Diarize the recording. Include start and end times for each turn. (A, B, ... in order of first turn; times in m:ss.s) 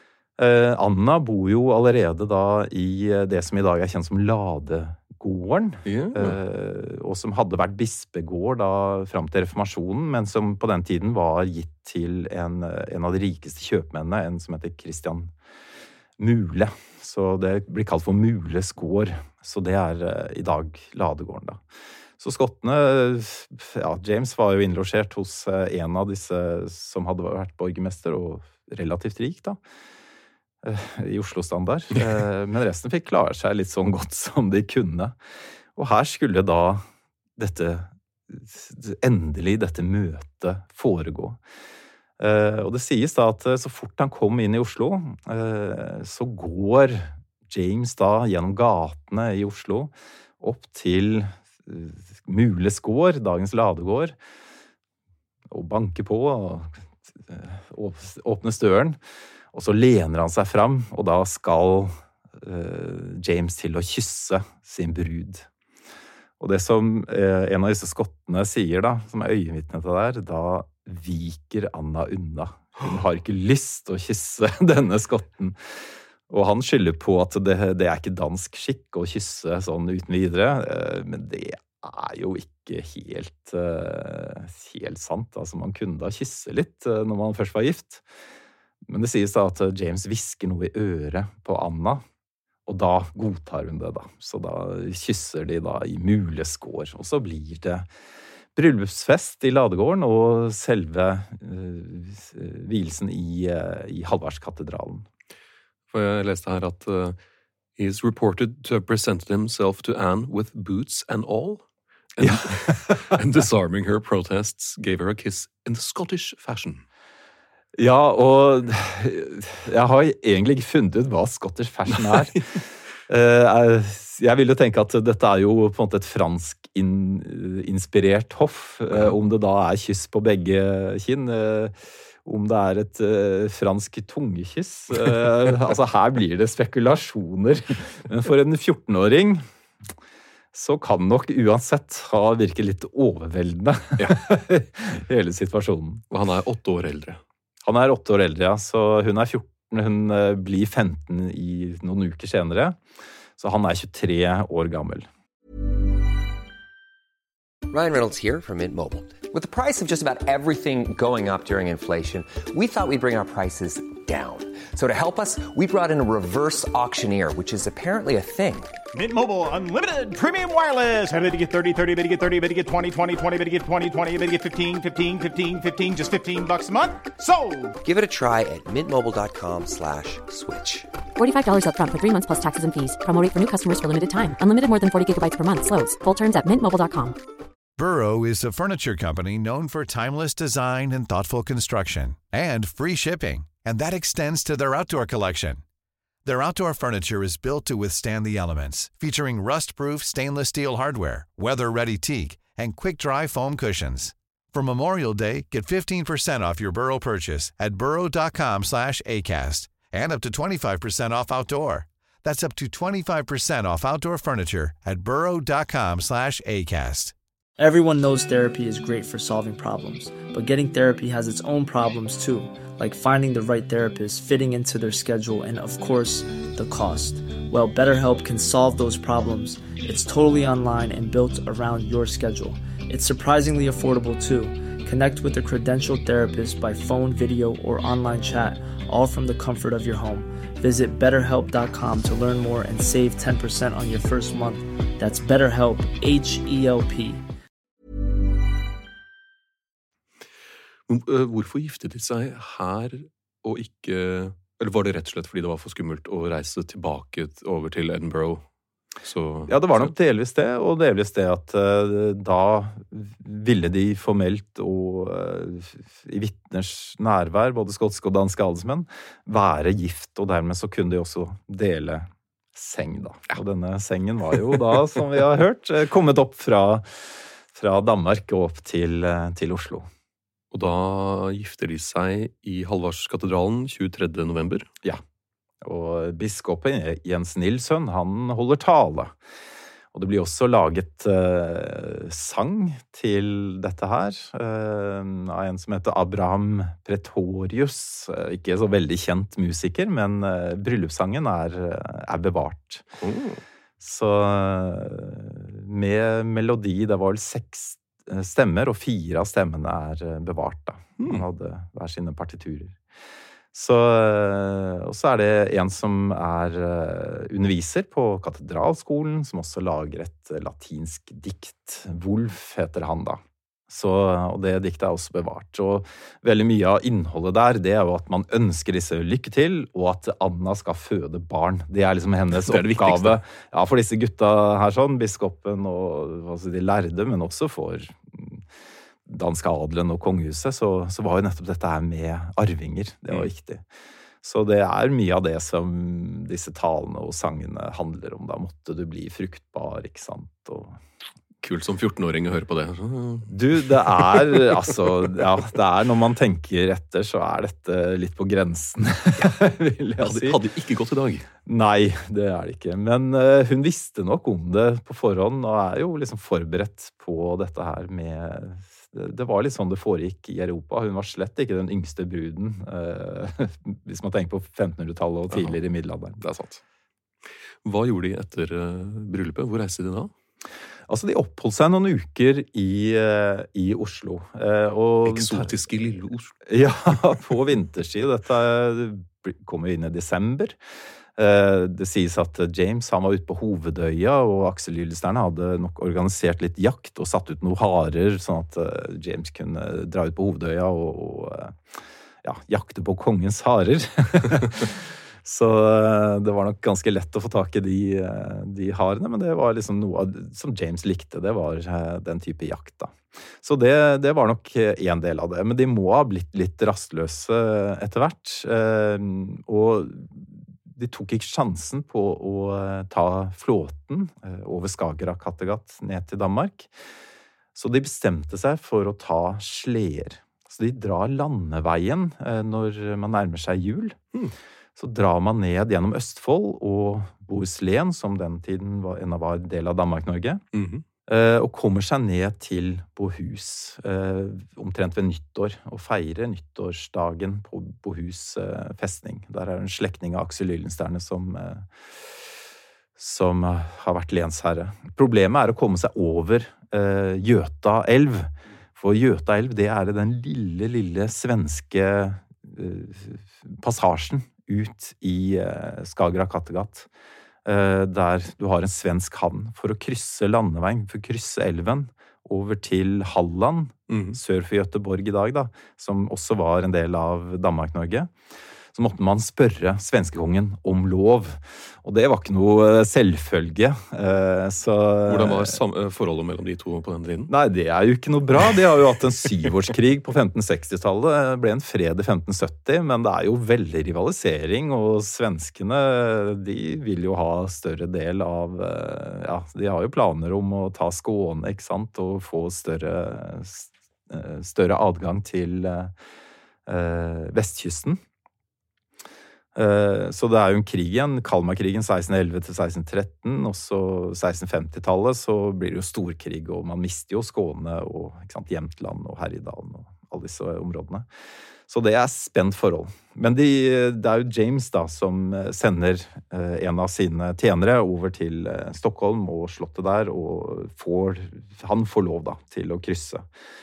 0:00.4-0:15.3 A
0:05.8-0:06.4 B
0:16.2-0:21.6 A
0:22.2-0:29.6 A
0:30.6-0:35.2 A
0:35.8-0:36.8 A
0:37.4-0:41.4 A
0:42.2-0:54.2 A
0:55.5-0:59.0 A
0:59.5-1:05.5 A
1:06.4-1:15.6 A
1:16.3-1:28.0 A
1:28.8-1:32.0 A
1:32.7-1:37.9 A
1:38.5-1:45.0 A
1:45.9-1:47.2 B
1:47.8-1:51.6 B
1:52.2-1:56.8 B
1:52.2-1:53.0 A
1:57.8-2:02.4 A
2:03.1-2:19.4 A
2:20.5-2:26.0 A
2:24.0-2:24.2 B
2:26.1-2:27.2 B
2:27.6-2:32.8 A
2:33.4-2:35.1 A
2:37.7-2:48.7 C
2:48.9-2:57.8 D
2:57.8-3:00.9 C
3:01.2-3:07.2 E
3:07.8-3:15.6 F
3:16.2-3:37.1 F
3:37.6-4:07.2 G
4:10.9-4:18.4 B
4:19.0-4:19.9 B
4:19.5-4:39.9 A
4:40.5-4:44.7 B
4:45.6-4:49.1 A
4:49.9-5:02.9 A
5:03.0-5:03.4 B
5:03.8-5:12.8 A
5:13.5-5:38.4 A
5:32.4-5:33.2 B
5:39.0-5:43.6 A
5:44.2-5:50.8 A
5:51.4-5:53.3 B
5:53.3-6:00.4 A
6:00.0-6:01.3 B
6:01.4-6:16.2 A
6:16.2-6:16.6 B
6:17.6-6:20.1 B
6:20.9-6:25.5 A
6:25.0-6:26.3 B
6:26.5-6:30.6 A
6:31.2-6:41.6 A
6:42.2-7:06.7 A
7:07.5-7:14.0 A
7:14.8-7:20.4 A
7:20.5-7:20.8 B
7:21.1-7:32.1 A
7:33.0-7:46.9 A
7:47.4-7:58.1 A
7:53.9-7:54.2 B
7:58.7-8:05.6 A
8:05.1-8:07.3 B
8:07.3-8:25.9 A
8:26.7-8:28.0 A
8:29.5-8:41.1 A
8:41.7-8:53.3 A